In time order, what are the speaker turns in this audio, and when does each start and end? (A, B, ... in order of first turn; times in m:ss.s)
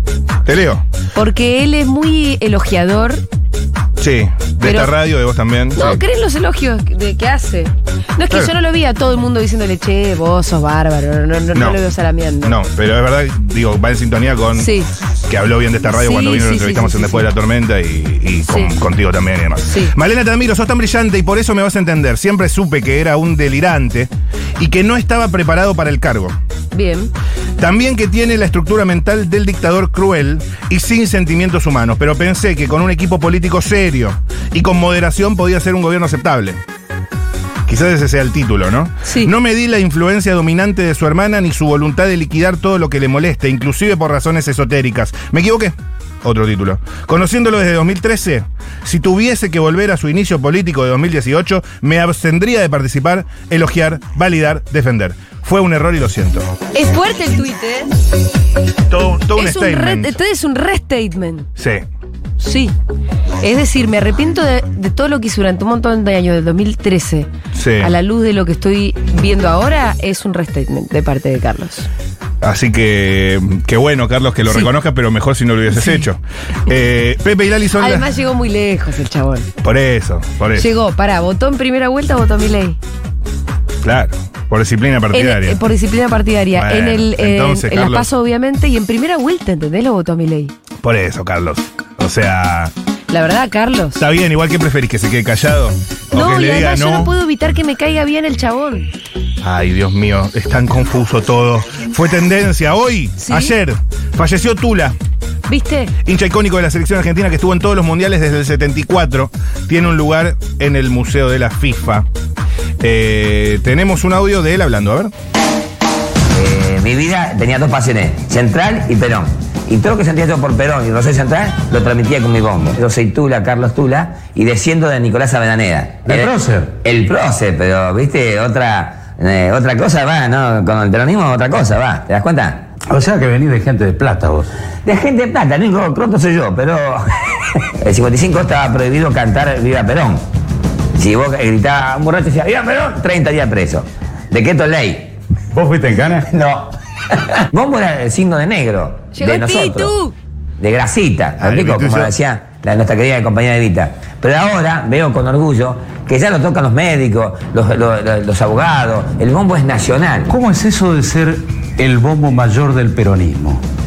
0:00.4-0:00.8 A
0:01.1-0:03.2 B
0:04.0-0:06.0 A
0:04.6-0:04.9 B
0:05.7-0:12.6 B
0:11.5-0:11.8 A
0:12.4-0:14.7 A
0:14.6-0:14.9 B
0:15.3-0:26.4 A
0:15.9-0:17.3 B
0:18.5-0:18.7 B
0:19.6-0:19.9 B
0:26.7-0:27.1 B
0:27.6-0:36.6 A
0:37.6-0:56.5 A
0:39.0-0:39.3 B
0:56.7-0:57.9 B
0:58.9-1:00.2 A
0:59.3-1:01.5 B
1:01.6-1:01.8 A
1:02.4-1:02.7 B
1:03.4-1:07.3 B
1:07.5-1:07.9 A
1:07.8-1:11.9 B
1:12.4-1:18.1 A
1:15.7-1:16.0 B
1:17.8-1:19.5 B
1:19.6-1:20.7 A
1:20.5-1:22.8 B
1:23.8-1:25.6 A
1:25.1-1:30.5 B
1:26.5-1:28.1 A
1:30.8-1:32.7 A
1:33.1-1:34.0 B
1:34.0-1:37.1 A
1:36.1-1:38.9 B
1:39.4-1:45.0 A
1:43.2-1:43.5 B
1:45.5-1:45.9 B
1:46.0-1:52.1 A
1:52.8-1:55.1 A
1:56.3-2:12.7 C
2:06.0-2:06.7 D
2:12.9-2:14.5 D
2:14.8-2:17.2 C
2:17.8-2:20.2 C
2:20.9-2:25.1 C
2:25.5-2:26.3 D
2:26.2-2:29.9 C
2:29.1-2:30.1 B
2:30.6-2:40.3 C
2:31.4-2:32.1 A
2:40.3-2:43.6 D